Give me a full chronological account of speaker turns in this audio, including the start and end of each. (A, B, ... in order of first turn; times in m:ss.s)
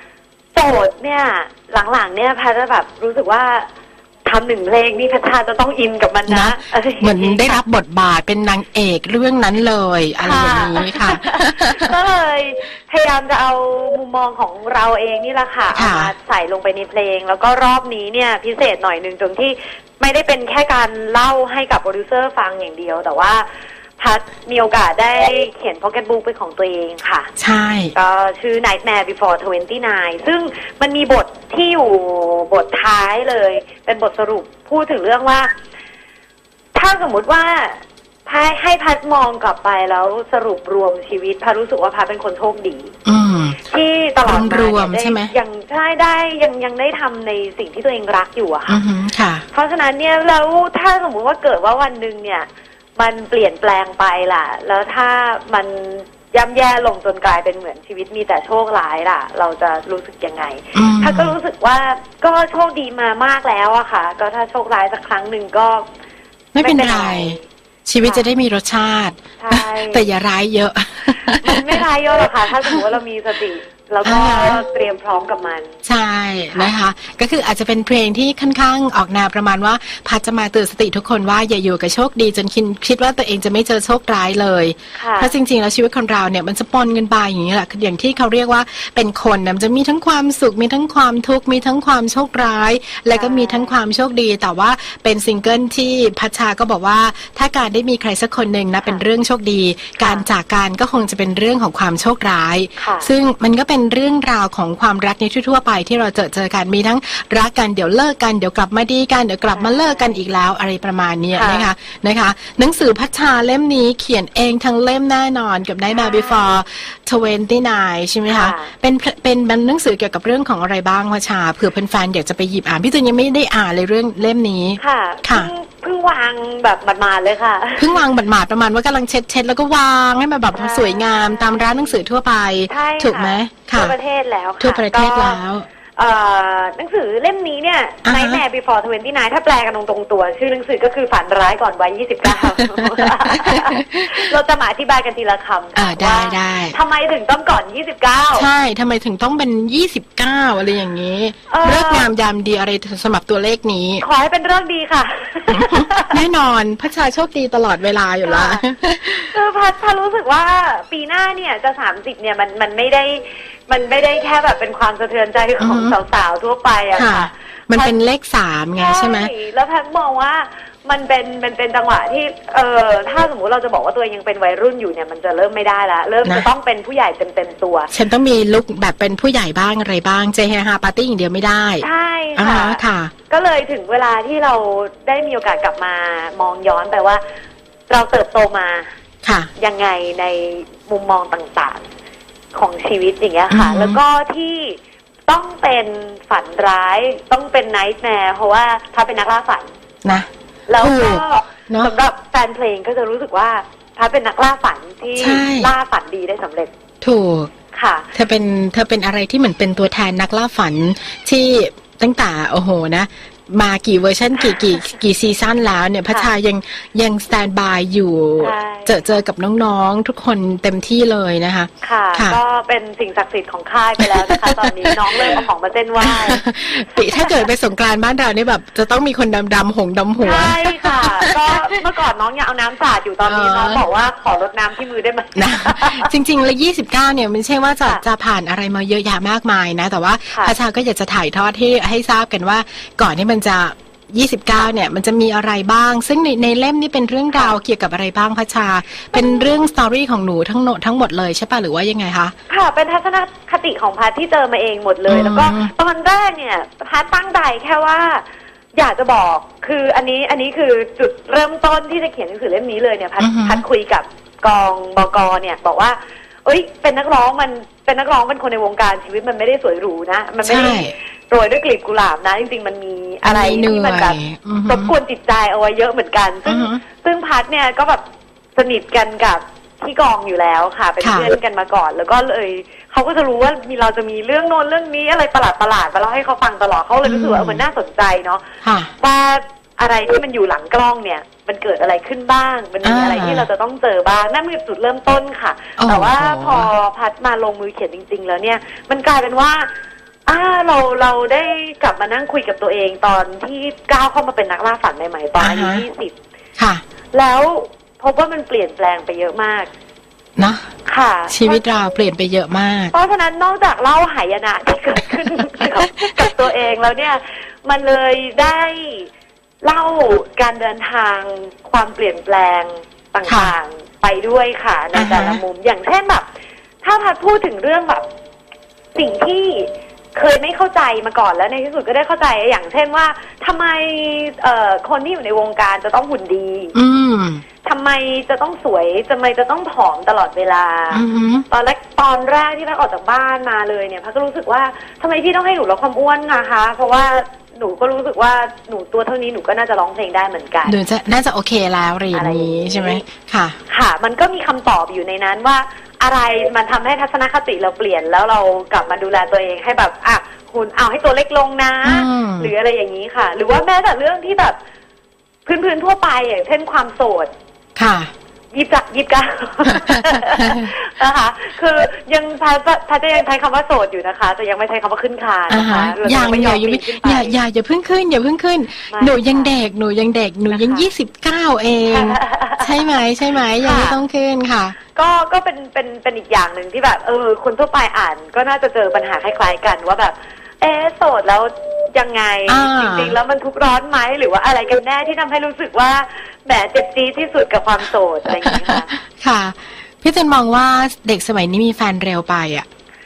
0:00.6-0:03.7 A
0:04.2-0:07.6 A
0:06.3-0:11.9 B
0:10.2-0:23.5 A
0:15.7-0:16.1 B
0:24.0-0:27.3 A
0:27.4-0:28.0 B
0:28.0-0:35.5 A
0:36.7-0:42.9 A
0:43.0-0:43.6 B
0:43.7-0:48.8 A
0:44.2-0:45.3 B
0:48.7-0:49.4 B
0:49.5-1:05.9 A
1:00.8-1:01.4 B
1:06.5-1:11.8 B
1:06.6-1:07.4 A
1:08.0-1:08.3 A
1:09.4-1:10.0 A
1:11.4-1:15.8 A
1:14.0-1:14.6 B
1:15.8-2:05.5 B
1:25.0-1:25.3 A
1:33.1-1:33.8 A
1:40.0-1:40.3 A
1:42.8-1:43.1 A
1:49.5-1:50.0 A
1:51.3-1:51.7 A
1:55.9-1:56.6 A
1:58.3-1:58.7 A
2:04.8-2:08.0 A
2:07.8-2:13.9 B
2:10.5-2:12.0 A
2:12.7-2:15.4 A
2:14.6-2:15.7 B
2:16.0-2:28.5 A
2:18.0-2:18.4 B
2:22.3-2:24.2 B
2:25.8-2:26.8 B
2:28.4-2:34.0 B
2:31.5-2:32.1 A
2:34.0-2:36.2 A
2:35.5-2:39.4 B
2:38.2-2:38.6 A
2:39.3-2:48.0 A
2:45.6-2:46.0 B
2:47.0-2:49.3 B
2:48.8-2:57.9 A
2:57.9-3:03.1 B
3:01.8-3:07.2 A
3:07.9-3:08.9 A
3:09.2-3:09.5 B
3:09.6-3:11.8 A
3:12.5-3:19.7 A
3:13.5-3:14.0 B
3:20.7-3:26.7 A
3:20.8-3:21.9 B
3:25.2-3:25.7 B
3:27.0-3:27.5 B
3:27.7-3:28.1 A
3:28.1-3:42.4 B
3:34.4-3:34.8 A
3:38.4-3:39.0 A
3:41.8-3:47.5 A
3:44.3-3:45.3 B
3:46.0-3:51.3 B
3:50.2-3:56.1 A
3:53.3-3:53.8 B
3:55.4-4:12.3 B
4:07.3-4:07.6 A
4:09.2-4:09.4 A
4:12.5-4:18.2 A
4:15.1-4:15.7 B
4:18.8-4:38.0 A
4:23.2-4:23.6 B
4:30.4-4:30.9 B
4:33.2-4:35.0 B
4:36.5-4:36.8 B
4:38.6-4:48.4 A
4:41.0-4:41.3 B
4:47.0-4:47.6 B
4:48.6-4:48.9 B
4:49.0-4:59.7 A
4:52.8-4:53.5 B
4:55.8-4:56.7 B
5:00.3-5:06.2 A
5:05.4-5:05.8 B
5:07.1-5:09.7 A
5:10.4-5:10.7 B
5:10.9-5:11.6 A
5:11.3-5:12.9 B
5:12.9-5:19.1 A
5:19.6-5:26.3 A
5:23.2-5:23.6 B
5:24.9-5:25.4 B
5:26.8-5:28.1 A
5:29.0-5:36.8 A
5:36.7-5:37.4 B
5:37.6-5:50.8 A
5:40.9-5:41.5 B
5:50.6-5:53.6 B
5:52.1-5:53.0 A
5:53.7-6:04.6 A
6:01.8-6:02.5 B
6:05.5-6:07.3 A
6:07.8-6:08.1 B
6:08.5-6:17.4 A
6:09.9-6:10.7 B
6:15.5-6:24.8 B
6:18.9-6:19.6 A
6:20.5-6:20.9 A
6:21.9-6:23.0 A
6:23.5-6:24.0 A
6:25.0-6:38.9 A
6:32.5-6:33.2 B
6:38.3-6:42.7 B